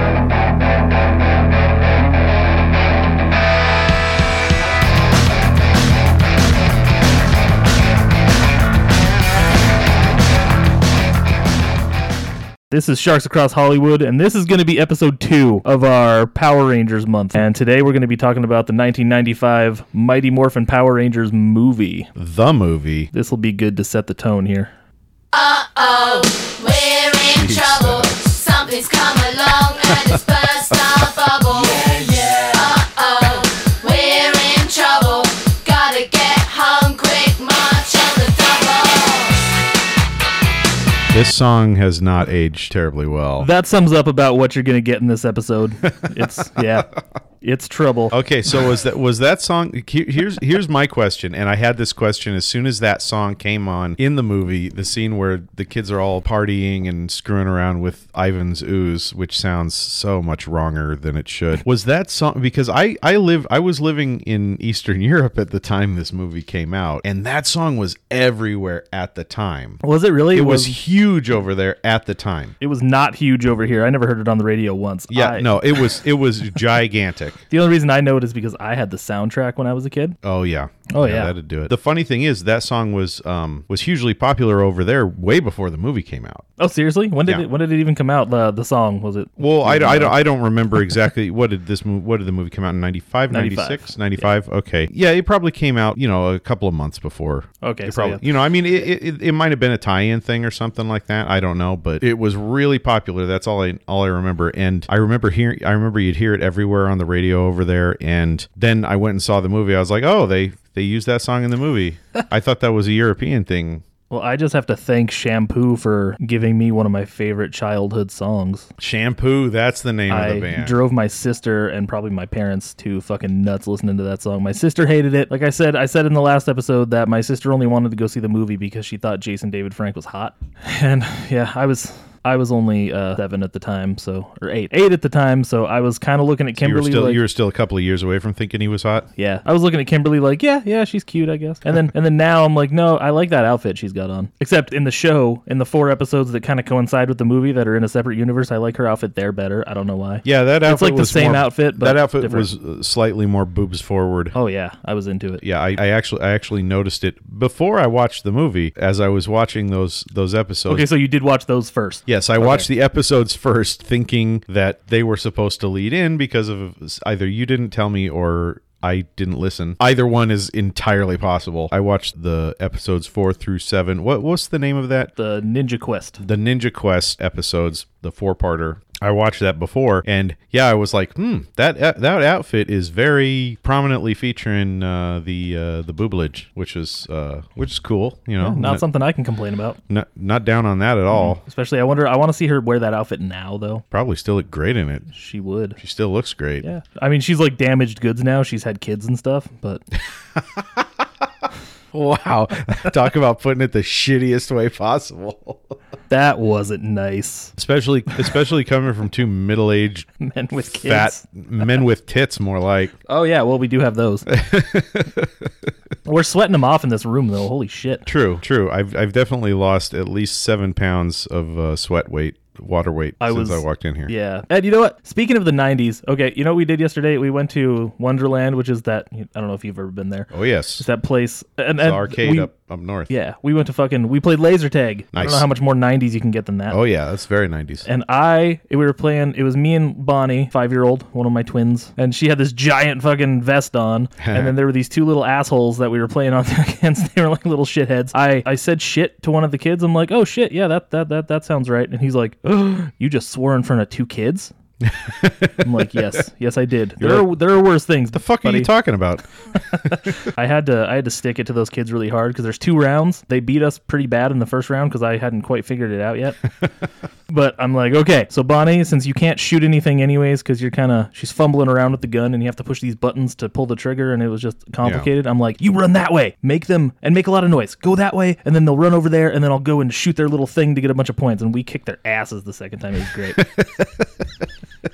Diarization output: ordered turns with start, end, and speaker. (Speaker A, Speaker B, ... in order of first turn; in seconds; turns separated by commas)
Speaker A: 12.7-22.1, Speaker B: 22.2-23.1, Speaker A: 23.1-24.7, Speaker C: 25.3-39.4, Speaker B: 27.2-28.2, Speaker B: 29.9-31.0, Speaker B: 41.1-43.5, Speaker A: 43.4-46.9, Speaker B: 46.1-46.7, Speaker A: 47.4-48.2, Speaker B: 48.1-69.8, Speaker A: 69.8-70.8, Speaker B: 70.3-72.5, Speaker A: 72.6-75.8, Speaker B: 75.1-77.4, Speaker A: 77.5-80.2, Speaker B: 80.2-86.5, Speaker A: 80.9-81.3, Speaker A: 86.6-90.2, Speaker B: 89.4-113.8, Speaker A: 93.3-94.3, Speaker A: 97.6-98.3, Speaker A: 114.1-118.7, Speaker B: 118.8-120.8, Speaker A: 120.1-137.2, Speaker B: 136.6-139.1, Speaker A: 139.2-152.5, Speaker B: 150.2-154.3, Speaker A: 154.3-155.4, Speaker B: 155.4-160.9, Speaker A: 160.7-162.7, Speaker B: 162.1-175.1, Speaker A: 175.2-176.2, Speaker B: 176.2-188.8, Speaker A: 188.4-189.8, Speaker B: 189.9-191.4, Speaker A: 191.1-193.8, Speaker B: 193.9-195.1, Speaker A: 195.1-195.8, Speaker B: 195.8-196.7, Speaker A: 196.6-199.8, Speaker B: 200.3-200.8, Speaker B: 201.9-205.8, Speaker A: 206.1-207.6, Speaker B: 207.6-210.1, Speaker A: 210.2-211.2, Speaker B: 210.8-212.9, Speaker A: 213.1-214.3, Speaker B: 214.3-215.5, Speaker A: 216.1-218.1, Speaker B: 218.1-224.1, Speaker A: 223.2-232.5, Speaker B: 230.3-230.9, Speaker B: 231.8-233.1, Speaker A: 233.1-236.8, Speaker B: 235.1-235.5, Speaker B: 236.7-237.9, Speaker A: 237.8-254.5, Speaker B: 244.2-244.6, Speaker B: 254.8-255.7, Speaker A: 255.6-258.7, Speaker B: 257.0-257.3, Speaker B: 258.1-259.2, Speaker A: 259.8-266.4, Speaker A: 267.3-283.5, Speaker B: 274.8-275.1, Speaker B: 283.4-284.1